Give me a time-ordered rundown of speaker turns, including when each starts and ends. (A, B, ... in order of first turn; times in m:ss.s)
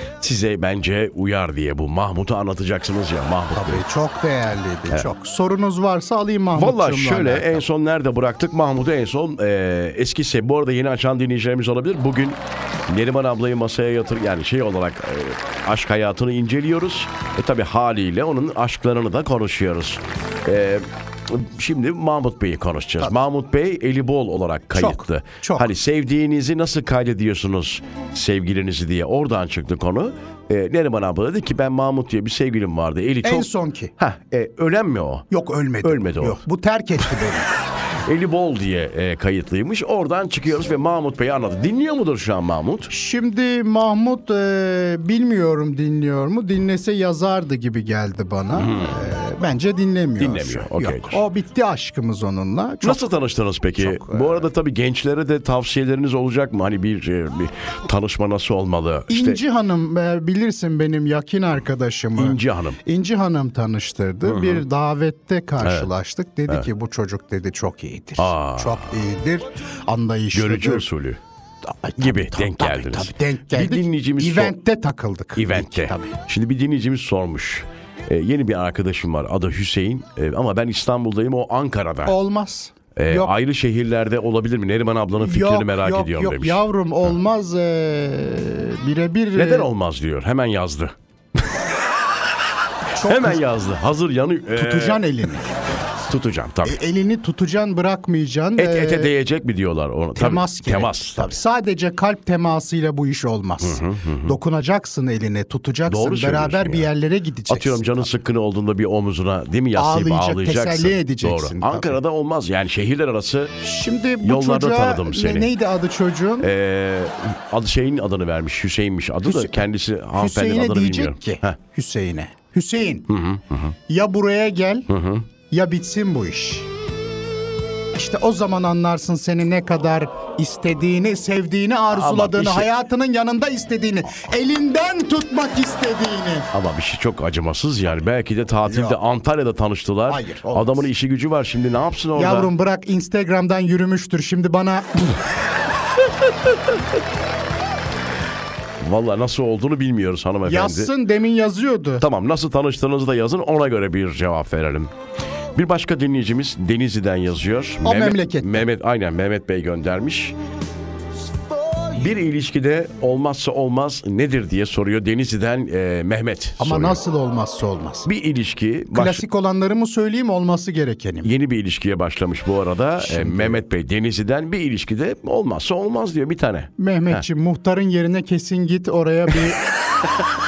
0:00.2-0:03.8 A
0:03.5-0:07.6 B
0:06.5-0:35.2 A
0:24.7-0:25.7 B
0:33.2-0:33.9 B
0:35.3-0:37.5 B
0:35.8-0:36.4 A
0:38.0-0:42.9 A
0:42.9-0:53.1 B
0:48.5-0:49.0 A
0:50.2-0:51.2 A
0:52.8-0:59.4 A
0:53.8-0:54.4 B
0:59.1-1:10.8 B
1:02.2-1:02.8 A
1:04.2-1:04.6 A
1:05.6-1:05.9 A
1:08.2-1:09.0 A
1:10.3-1:11.2 A
1:11.6-1:16.2 B
1:12.0-1:14.6 A
1:15.3-1:22.2 A
1:22.0-1:23.3 B
1:22.9-1:26.6 A
1:25.2-1:29.7 B
1:29.3-1:31.6 A
1:32.9-1:33.4 B
1:33.0-1:35.1 A
1:34.5-1:35.5 B
1:36.0-1:36.8 A
1:36.6-1:39.1 B
1:38.6-1:41.4 A
1:40.2-1:48.0 B
1:43.6-1:44.4 A
1:45.9-1:46.9 A
1:47.5-1:53.6 A
1:49.7-1:52.0 B
1:53.6-1:56.5 B
1:54.2-1:55.5 A
1:56.4-2:01.6 A
1:59.2-1:59.6 B
2:00.1-2:03.1 B
2:03.1-2:03.7 A
2:03.9-2:04.9 B
2:04.9-2:05.3 A
2:05.5-2:06.7 B
2:07.9-2:16.5 B
2:11.9-2:12.7 A
2:16.5-2:22.5 A
2:18.6-2:19.0 B
2:20.1-2:20.9 B
2:22.1-2:25.2 B
2:28.8-2:30.9 A
2:30.4-2:32.0 B
2:32.0-2:34.9 A
2:35.5-2:40.4 A
2:37.8-2:38.6 B
2:41.9-2:47.0 A
2:46.6-2:48.1 B
2:48.0-2:49.2 A
2:48.9-2:51.3 B
2:51.2-2:57.2 A
2:53.0-2:53.6 B
2:56.8-2:59.6 B